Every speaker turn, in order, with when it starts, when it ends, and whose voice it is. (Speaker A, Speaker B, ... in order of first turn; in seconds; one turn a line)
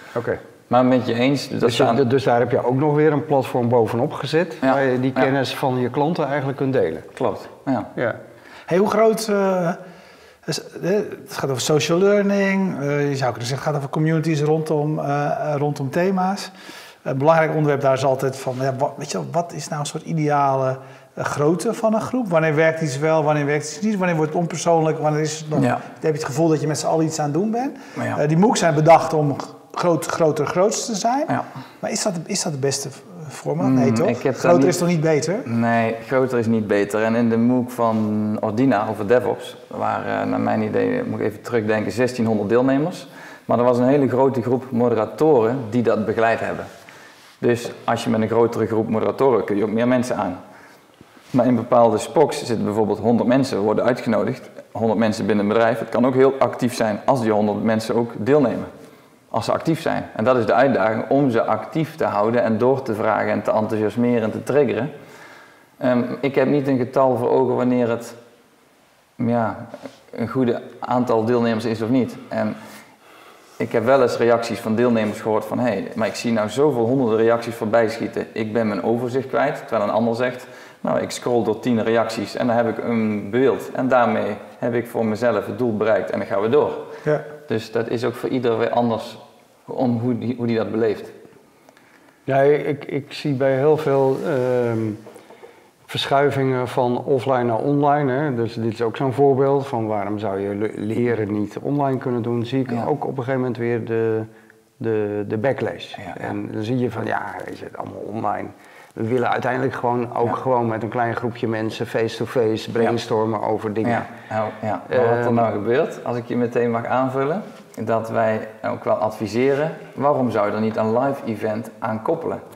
Speaker A: 0.1-0.4
Speaker B: 0.7-2.0
Speaker A: 1.6-7.1
Speaker B: 4.6-5.3
Speaker B: 7.1-7.9
Speaker C: 8.7-9.8
Speaker C: 10.5-16.5
Speaker C: 17.0-35.5
Speaker B: 25.6-25.8
Speaker B: 33.6-34.8
Speaker B: 35.4-46.7
Speaker B: 47.4-50.4
Speaker B: 51.3-58.7
Speaker B: 59.3-64.9
Speaker B: 65.8-68.2
Speaker B: 69.2-72.6
Speaker B: 73.6-86.9
Speaker B: 87.4-91.1
Speaker A: 92.3-95.0
Speaker A: 95.9-114.1
Speaker B: 113.8-122.4
Speaker A: 114.9-115.4